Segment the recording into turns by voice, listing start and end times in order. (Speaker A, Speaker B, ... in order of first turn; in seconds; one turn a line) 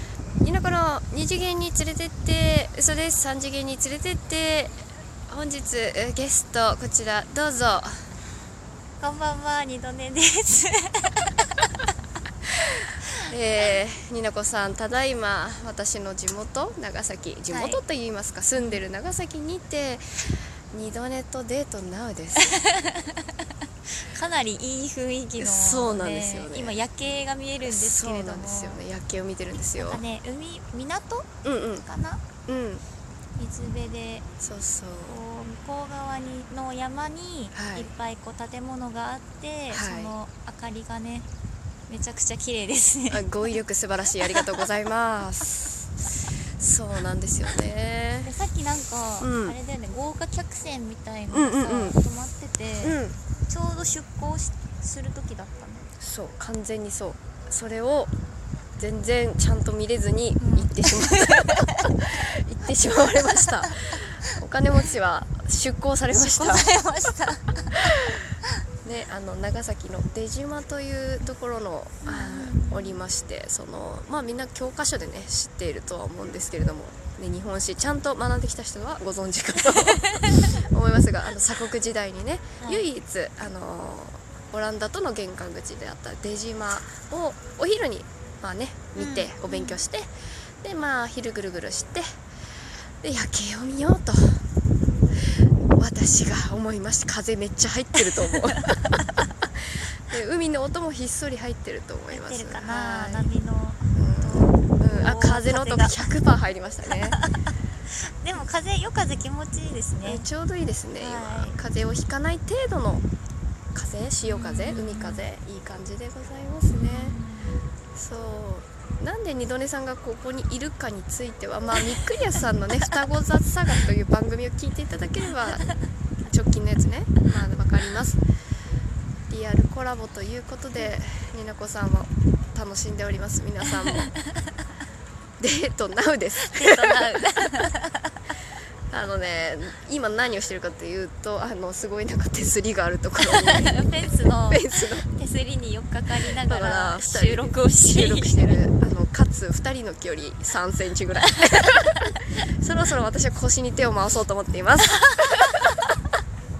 Speaker A: 0.4-4.8
Speaker A: 5.3-8.1
Speaker B: 9.0-11.5
Speaker A: 13.2-22.5
Speaker B: 17.5-17.8
Speaker B: 18.6-18.8
Speaker B: 22.4-23.5
Speaker B: 24.0-28.8
Speaker A: 25.4-26.8
Speaker A: 27.6-30.0
Speaker B: 29.8-31.3
Speaker A: 31.4-31.9
Speaker B: 31.8-32.2
Speaker A: 32.5-32.8
Speaker B: 33.4-34.3
Speaker A: 34.4-35.2
Speaker B: 35.1-41.3
Speaker A: 37.5-37.9
Speaker A: 39.7-40.1
Speaker B: 41.9-43.2
Speaker A: 43.1-45.8
Speaker A: 46.6-48.3
Speaker B: 48.2-53.0
Speaker A: 49.2-49.6
Speaker A: 51.3-52.0
Speaker A: 52.8-53.2
Speaker B: 53.5-56.0
Speaker A: 56.0-58.1
Speaker A: 58.8-66.7
Speaker B: 60.4-61.9
Speaker B: 66.1-67.8
Speaker A: 67.8-68.2
Speaker A: 68.8-92.1
Speaker B: 72.0-73.0
Speaker B: 79.8-80.4
Speaker B: 89.0-89.8
Speaker A: 93.0-94.4
Speaker A: 95.8-103.3
Speaker B: 102.1-106.1
Speaker A: 103.9-107.2
Speaker B: 106.9-107.3
Speaker B: 108.1-110.3
Speaker A: 110.0-113.0
Speaker B: 111.0-111.6
Speaker A: 113.7-117.2
Speaker B: 114.3-115.3
Speaker B: 116.7-117.6
Speaker A: 118.0-125.7
Speaker B: 125.4-125.8
Speaker A: 126.3-128.2
Speaker A: 129.3-134.1
Speaker B: 133.8-134.5
Speaker A: 135.4-137.0
Speaker B: 136.4-138.1
Speaker A: 138.9-145.1
Speaker B: 143.2-148.6
Speaker A: 146.4-152.0
Speaker A: 152.6-155.8